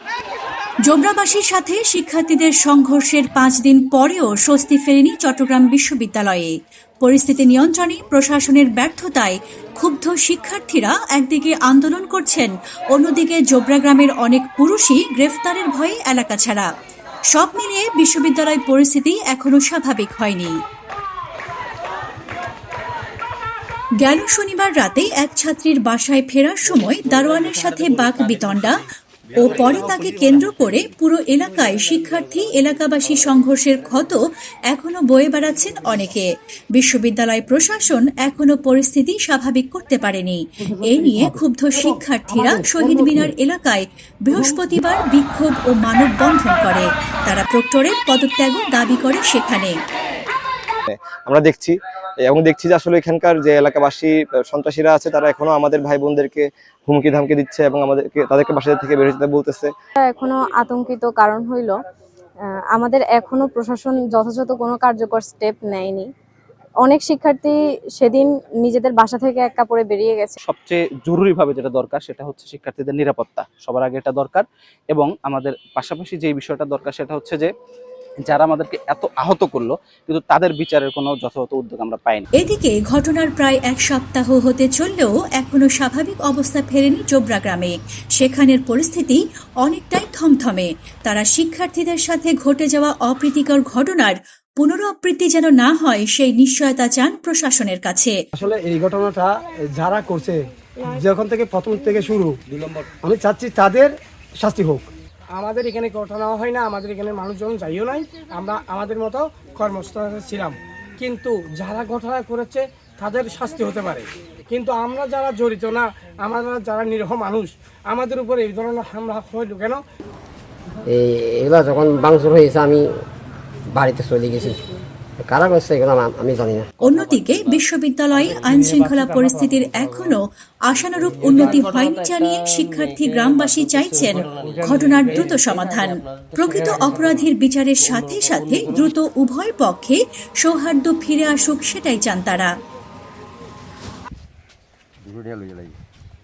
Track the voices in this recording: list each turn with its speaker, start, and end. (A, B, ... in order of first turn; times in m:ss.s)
0:00.8-0:16.7 A
0:17.3-0:20.6 A
0:24.0-0:28.8 A
0:29.3-0:49.7 A
0:50.9-0:59.7 B
1:00.0-1:01.8 C
1:02.7-1:06.1 C
1:06.8-1:10.4 C
1:10.4-1:17.5 D
1:18.2-1:22.3 D
1:22.3-1:38.2 A
1:38.4-1:44.9 E
1:45.4-1:59.8 F
2:00.9-2:02.9 G
2:03.7-2:04.6 G
2:05.2-2:06.7 G
2:06.8-2:22.5 A
2:14.4-2:15.0 E